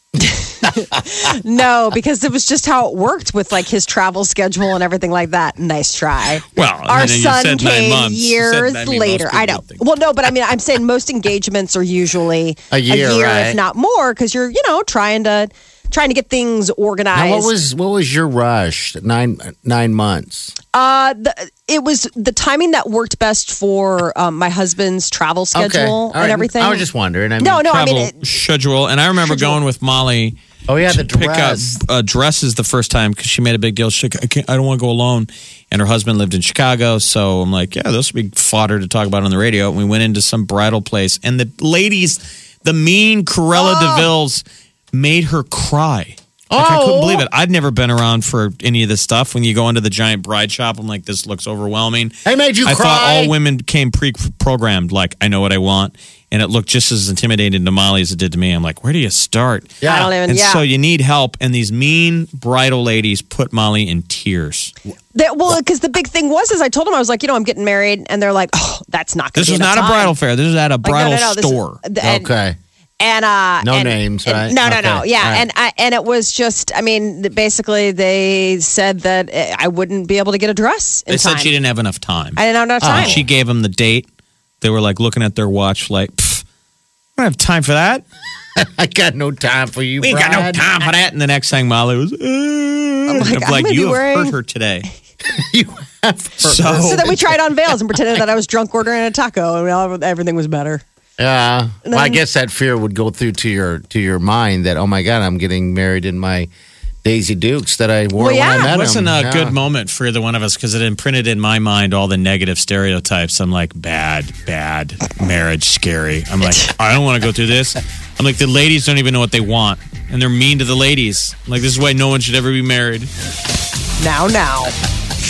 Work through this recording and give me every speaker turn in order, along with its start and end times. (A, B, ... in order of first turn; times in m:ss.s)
0:00.2-0:17.6 A
0:06.5-0:09.8 B
0:12.7-0:13.6 C
0:17.1-0:20.5 C
0:20.7-0:26.9 A
0:25.5-0:27.6 C
0:27.4-0:28.2 A
0:27.6-1:04.7 B
0:29.2-0:29.6 A
0:30.7-0:31.7 C
0:46.5-0:47.3 C
0:52.3-0:53.3 C
0:59.8-1:00.1 C
0:59.8-1:00.6 A
1:05.1-1:10.2 A
1:09.4-1:11.8 B
1:10.8-1:12.3 A
1:12.0-1:12.6 C
1:13.0-1:21.6 A
1:13.6-1:15.5 C
1:21.1-1:24.1 B
1:22.4-1:23.2 A
1:22.8-1:23.3 C
1:24.6-1:26.4 B
1:27.2-1:28.0 B
1:28.6-1:30.6 C
1:30.0-1:34.9 B
1:33.1-1:34.4 A
1:35.3-1:37.7 C
1:36.4-1:37.1 B
1:36.8-1:40.8 A
1:41.2-1:46.5 C
1:41.8-1:42.2 A
1:47.0-1:49.5 C
1:48.2-1:48.7 A
1:48.4-2:03.1 B
1:56.4-1:56.7 A
2:04.0-2:04.7 A